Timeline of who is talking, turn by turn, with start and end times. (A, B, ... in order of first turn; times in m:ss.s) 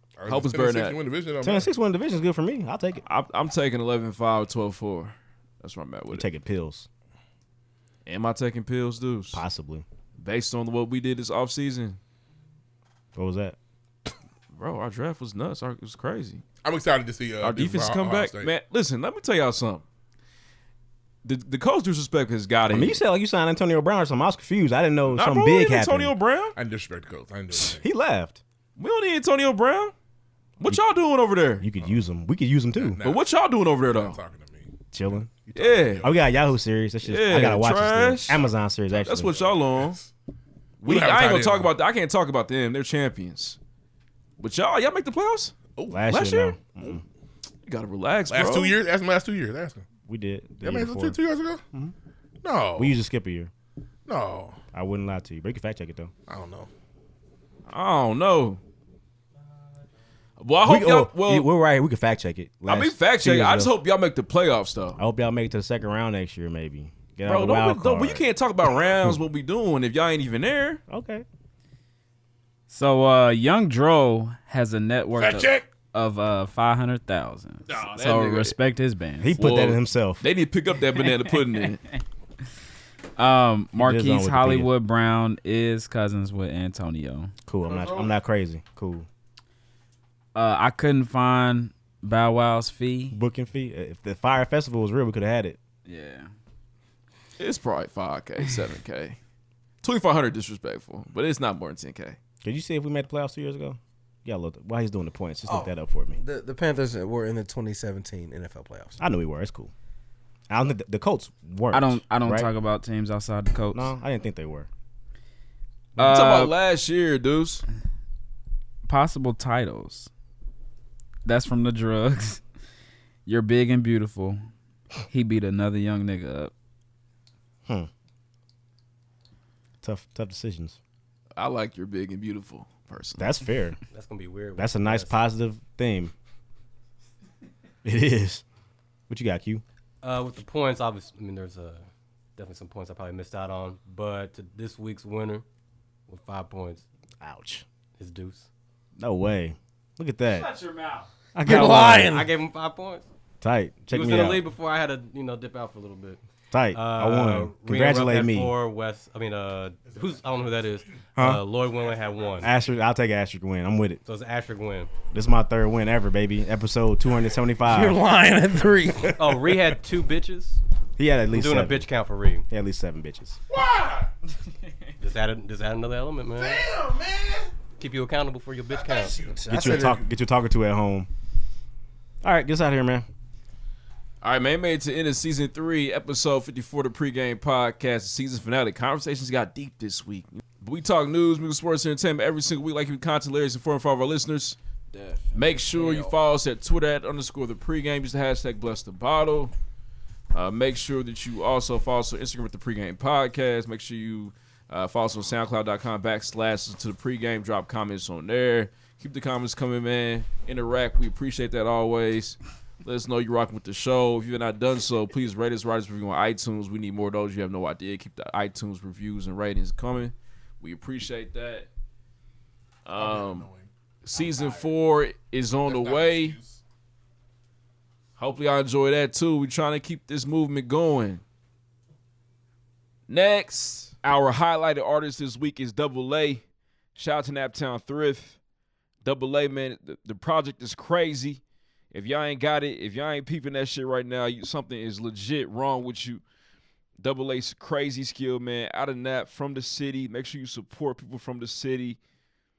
0:00.2-0:01.7 A
0:00.3-0:01.0 B
0:01.4-0:03.0 C
0:03.1-0:06.3 B
0:06.1-0:06.9 C
0:08.1-0:09.4 B
0:09.3-0:09.8 C
0:10.2-0:12.0 B
0:13.1-0:13.6 C
0:14.5-0:16.4 B
0:16.6-0:18.5 A
0:17.4-0:19.8 B
0:21.2-0:23.0 B
0:22.7-0:26.1 C
0:25.1-0:26.6 B
0:26.6-0:27.8 A
0:27.7-0:28.4 C
0:28.8-0:29.9 B
0:30.6-0:31.6 B
0:31.6-0:33.0 C
0:32.8-0:33.3 A
0:33.0-0:34.2 B
0:33.8-0:36.2 A
0:34.9-0:35.3 C
0:35.6-0:36.0 B
0:36.0-0:39.5 C
0:37.0-0:38.4 B
0:39.0-0:40.0 B
0:39.7-0:40.1 A
0:40.8-0:43.6 B
0:40.8-0:41.7 A
0:44.4-0:45.5 B
0:45.8-0:46.0 A
0:45.9-0:47.0 C
0:46.1-0:46.6 B
0:47.7-0:48.8 B
0:48.3-0:49.8 A
0:50.1-0:51.2 C
0:50.6-0:51.6 A
0:52.4-0:52.9 A
0:52.8-0:53.5 C
0:54.1-0:54.6 A
0:54.7-0:56.1 C
0:56.3-0:56.7 A
0:57.7-0:58.6 B
1:00.4-1:01.5 B
1:00.6-1:03.7 C
1:02.7-1:05.0 B
1:05.0-1:08.2 C
1:07.2-1:10.8 B
1:08.8-1:09.1 C
1:10.9-1:11.2 C
1:12.7-1:19.3 D
1:15.2-1:15.7 A
1:17.7-1:18.6 B
1:19.2-1:20.2 C
1:19.4-1:21.8 B
1:23.2-1:27.3 D
1:23.7-1:24.7 C
1:27.4-1:29.1 C
1:27.6-1:28.1 A
1:30.4-1:33.2 D
1:33.1-1:35.6 C
1:35.8-1:36.3 D
1:37.4-1:39.2 B
1:39.8-1:42.2 B
1:42.4-1:46.2 C
1:45.4-1:49.0 E
1:49.0-1:49.7 C
1:50.5-1:52.5 C
1:51.7-1:53.9 D
1:53.7-1:54.7 C
1:56.0-1:56.5 C
1:56.0-1:56.5 D
1:56.0-1:57.6 B
1:58.8-2:00.1 D
2:01.2-2:02.4 D
2:03.3-2:04.4 D
2:05.1-2:06.5 D
2:09.8-2:10.8 C
2:11.4-2:13.3 B
2:13.2-2:13.8 C
2:13.9-2:15.2 F
2:14.6-2:16.1 C
2:17.8-2:18.4 C
2:19.1-2:19.6 C
2:20.0-2:25.4 F
2:26.1-2:26.8 F
2:27.2-2:27.6 C
2:28.0-2:28.5 F
2:29.0-2:30.5 C
2:30.4-2:31.1 D
2:31.4-2:32.2 C
2:31.4-2:32.3 E
2:32.1-2:33.1 F
2:33.4-2:34.5 C
2:33.9-2:36.2 F
2:36.5-2:38.6 C
2:36.7-2:42.5 F
2:41.2-2:41.5 C
2:42.4-2:44.0 C
2:44.0-2:44.9 F
2:45.1-2:48.0 C
2:47.7-2:49.1 E
2:49.1-2:50.6 F
2:51.0-2:51.9 C
2:51.3-2:52.4 F
2:52.5-2:53.4 C
2:53.5-2:54.1 A
2:55.0-2:56.6 F
2:56.4-2:57.5 A
2:57.8-2:59.8 F
2:58.7-3:00.1 A
2:59.4-3:01.1 C
3:02.2-3:03.1 C
3:04.2-3:14.6 B
3:15.3-3:19.5 B
3:20.3-3:41.7 B
3:42.8-3:43.5 B
3:42.9-3:44.7 A
3:44.0-3:46.4 B
3:45.6-3:46.6 A
3:48.2-3:51.2 B
3:53.1-3:56.4 B
3:57.0-3:58.4 B
3:59.0-4:01.4 B
4:01.9-4:06.2 B
4:07.0-4:12.0 B